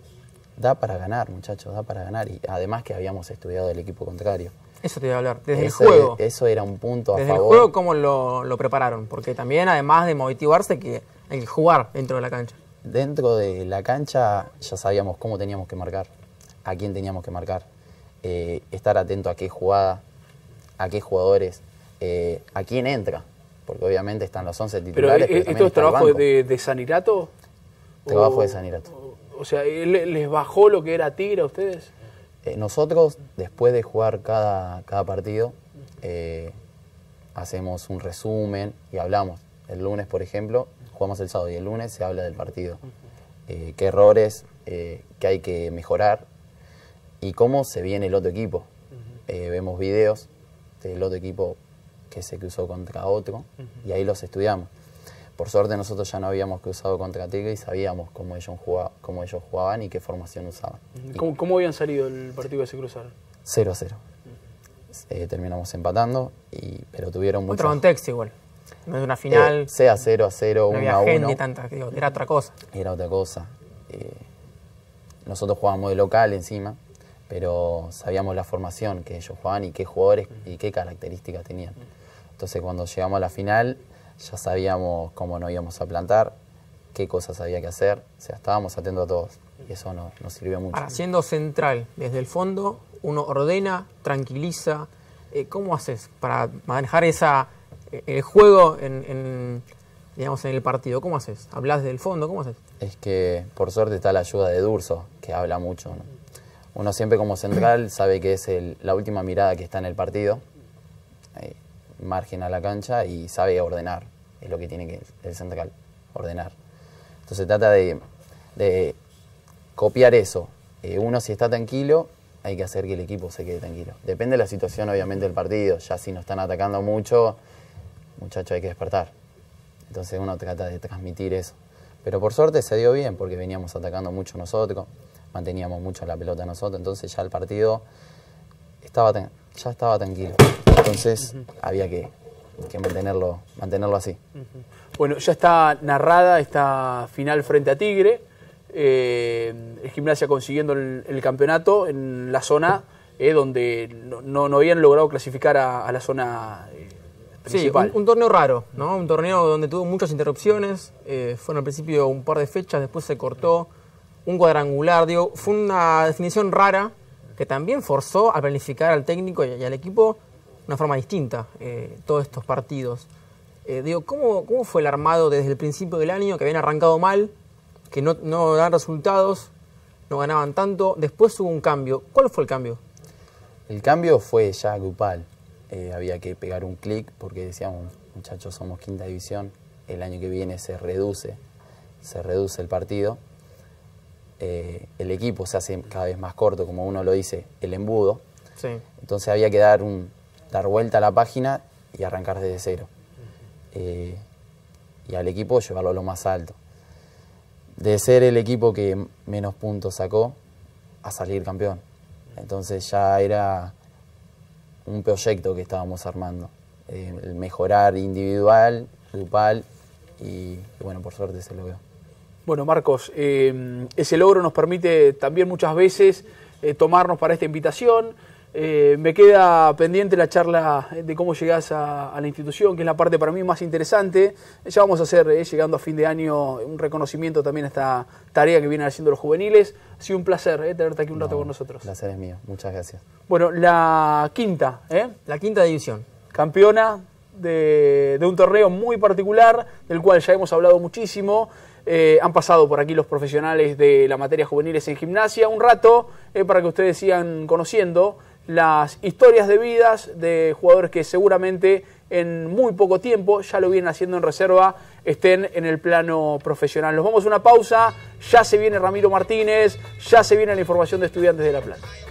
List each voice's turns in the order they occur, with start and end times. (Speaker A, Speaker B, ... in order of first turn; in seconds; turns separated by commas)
Speaker A: 0.6-4.5, Speaker B: 4.8-6.2, Speaker A: 5.5-7.7, Speaker B: 7.1-12.6, Speaker A: 12.8-16.1, Speaker A: 16.6-17.7, Speaker A: 18.2-20.0, Speaker A: 20.8-26.2, Speaker C: 24.9-27.3, Speaker C: 28.1-31.9, Speaker A: 28.1-28.9, Speaker A: 32.4-36.6, Speaker A: 37.4-42.8, Speaker A: 43.5-46.3, Speaker A: 47.2-48.7, Speaker A: 49.3-50.3, Speaker A: 50.8-51.6, Speaker A: 52.1-54.7, Speaker A: 55.4-61.2, Speaker C: 61.0-63.1, Speaker A: 63.5-64.0, Speaker A: 65.0-67.8, Speaker B: 67.5-68.3, Speaker B: 68.9-69.7, Speaker A: 69.3-71.4, Speaker B: 70.7-72.6, Speaker A: 72.7-74.2, Speaker A: 75.2-81.8, Speaker A: 82.4-86.4, Speaker A: 86.9-90.9, Speaker B: 90.7-99.6, Speaker B: 100.2-102.6, Speaker A: 102.8-106.1, Speaker A: 106.8-110.4, Speaker A: 111.3-116.5, Speaker A: 117.3-118.0, Speaker A: 118.6-119.0, Speaker A: 119.8-127.4, Speaker A: 128.2-129.1, Speaker A: 129.9-137.8, Speaker A: 138.8-142.1, Speaker A: 142.6-144.2, Speaker C: 145.0-156.9, Speaker C: 157.4-157.9, Speaker B: 157.5-163.7, Speaker B: 164.2-173.1, Speaker B: 173.7-177.3, Speaker B: 177.9-179.5, Speaker B: 180.1-182.8, Speaker A: 183.7-191.4, Speaker A: 192.0-193.2, Speaker A: 194.4-198.2, Speaker B: 198.6-198.8, Speaker A: 199.0-202.9, Speaker A: 203.7-204.2, Speaker A: 205.1-206.6, Speaker A: 207.8-210.4, Speaker A: 211.0-211.8, Speaker A: 212.3-213.8, Speaker A: 214.8-219.7, Speaker A: 220.2-221.8, Speaker C: 222.5-241.9, Speaker A: 241.2-243.0, Speaker C: 243.3-245.2, Speaker B: 245.3-246.1, Speaker C: 246.3-271.9